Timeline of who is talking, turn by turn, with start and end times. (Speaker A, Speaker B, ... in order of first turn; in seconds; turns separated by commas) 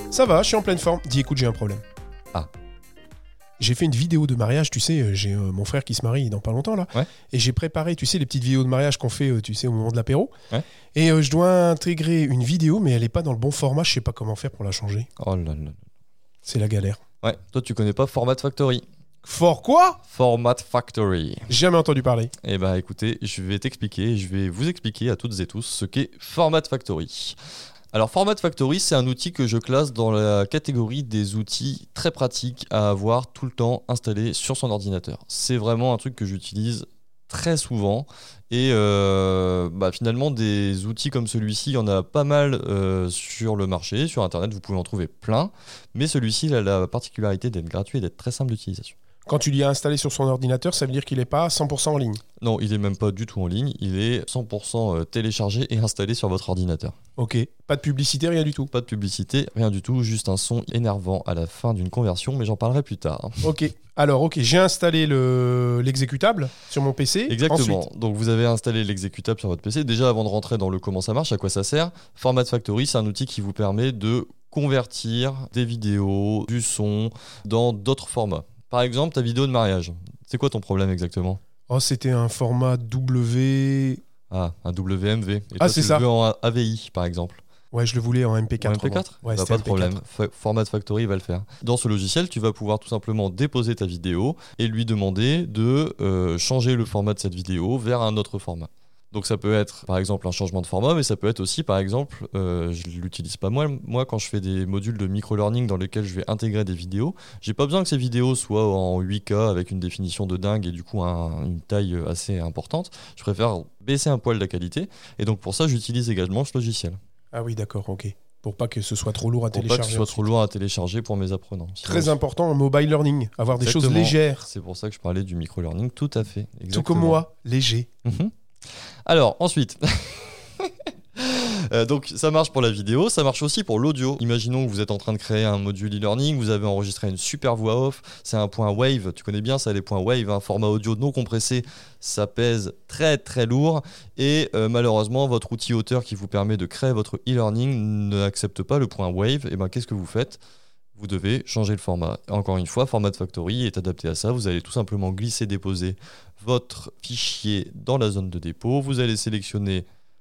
Speaker A: 0.1-1.8, Speaker A: 3.6-10.3, Speaker A: 10.9-15.1, Speaker B: 15.2-15.8, Speaker A: 16.4-17.0, Speaker B: 17.2-18.8, Speaker A: 19.2-20.0, Speaker B: 20.1-21.5, Speaker A: 21.5-22.3, Speaker B: 22.4-27.4, Speaker B: 27.9-49.0, Speaker A: 49.3-52.2, Speaker B: 52.4-57.0, Speaker A: 57.2-58.7, Speaker B: 58.7-63.5, Speaker A: 63.4-67.8, Speaker B: 67.3-81.4, Speaker A: 81.7-84.0, Speaker B: 84.3-87.4, Speaker A: 85.6-86.0, Speaker A: 87.7-90.0, Speaker B: 88.6-117.0, Speaker A: 117.3-120.3, Speaker B: 119.5-122.1, Speaker A: 121.8-124.5, Speaker B: 123.6-127.2, Speaker A: 126.7-127.9, Speaker B: 128.1-128.3, Speaker B: 129.1-150.4, Speaker B: 151.0-159.9